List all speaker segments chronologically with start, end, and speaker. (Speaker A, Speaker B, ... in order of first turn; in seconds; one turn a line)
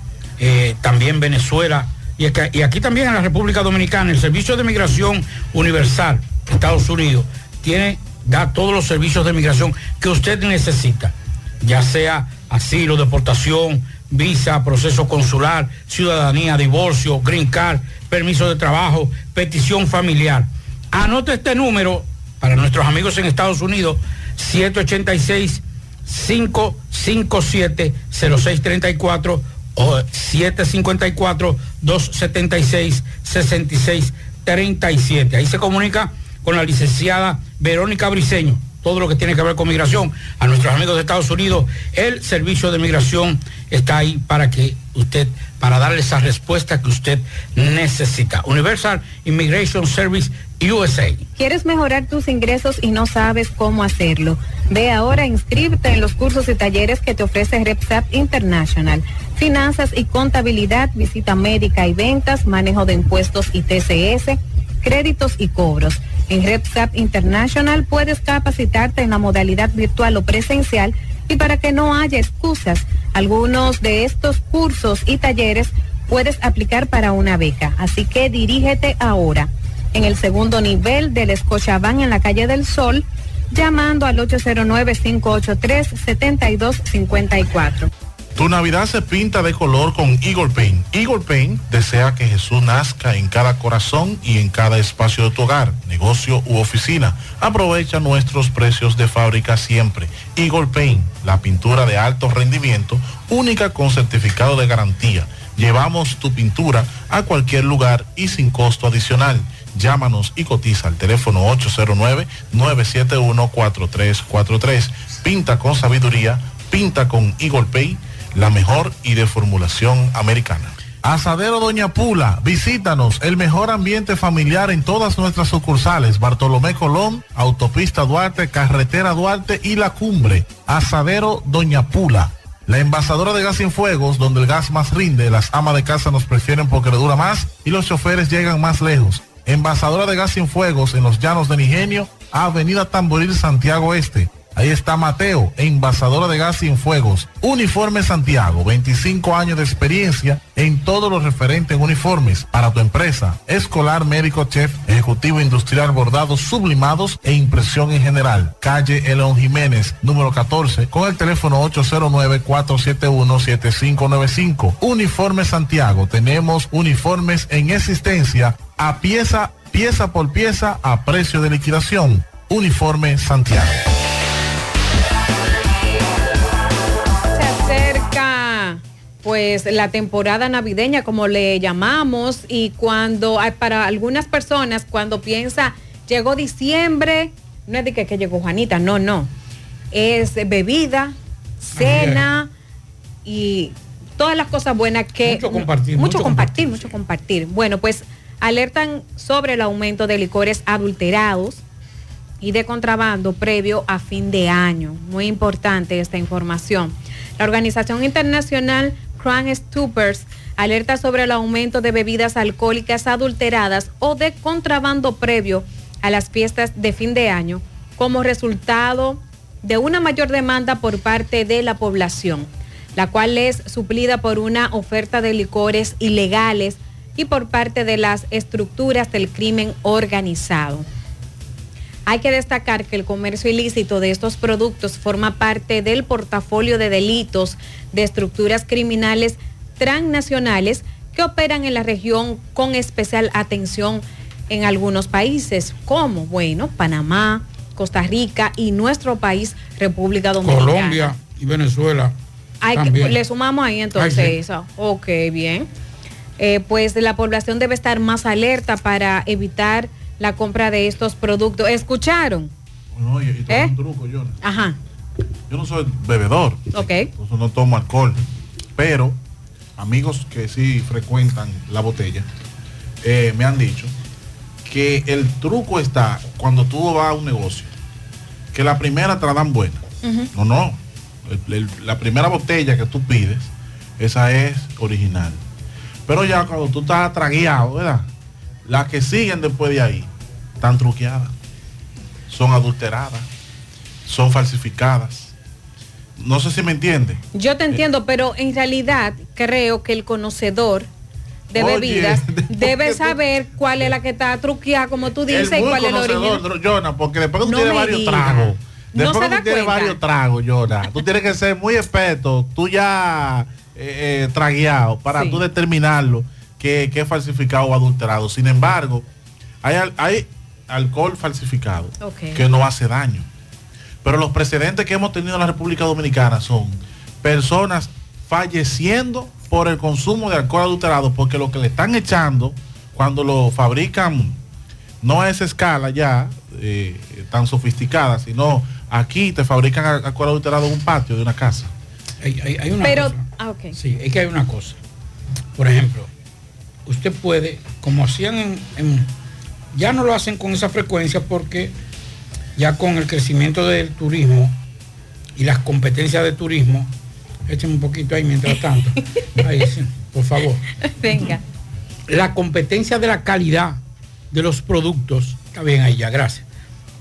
Speaker A: 0.4-51.3
Speaker B: 51.4-87.9
Speaker C: 88.4-173.8
Speaker B: 177.3-189.3
Speaker B: 189.9-192.5
Speaker A: 191.8-192.2
Speaker B: 193.2-201.6
Speaker A: 195.2-197.0
Speaker B: 202.4-230.8
Speaker B: 232.1-251.1
Speaker A: 250.4-252.1
Speaker B: 252.6-255.7
Speaker A: 252.7-253.2
Speaker A: 254.0-254.4
Speaker B: 256.4-262.5
Speaker C: 262.9-264.4
Speaker B: 264.4-264.8
Speaker C: 265.5-268.2
Speaker B: 266.7-267.1
Speaker C: 268.8-269.2
Speaker C: 269.8-272.3
Speaker C: 273.0-273.9
Speaker C: 274.6-277.7
Speaker C: 278.5-285.4
Speaker B: 280.0-280.3
Speaker C: 286.1-288.1
Speaker C: 288.7-291.3
Speaker C: 292.3-293.3
Speaker C: 294.1-295.3
Speaker C: 296.2-297.8
Speaker B: 297.3-300.9
Speaker B: 301.5-306.4
Speaker C: 301.6-303.2
Speaker C: 305.3-319.1
Speaker B: 307.4-310.0
Speaker B: 315.1-315.4
Speaker C: 319.6-323.3
Speaker B: 322.0-322.4
Speaker C: 324.0-334.4
Speaker C: 335.0-341.7
Speaker A: 342.2-343.2
Speaker B: 342.8-343.8
Speaker A: 343.8-344.8
Speaker A: 345.6-346.1
Speaker A: 346.9-349.1
Speaker A: 349.7-351.7
Speaker A: 352.6-354.6
Speaker A: 355.4-356.9
Speaker A: 357.5-360.6
Speaker B: 361.0-361.4
Speaker A: 362.1-363.8
Speaker A: 364.3-366.4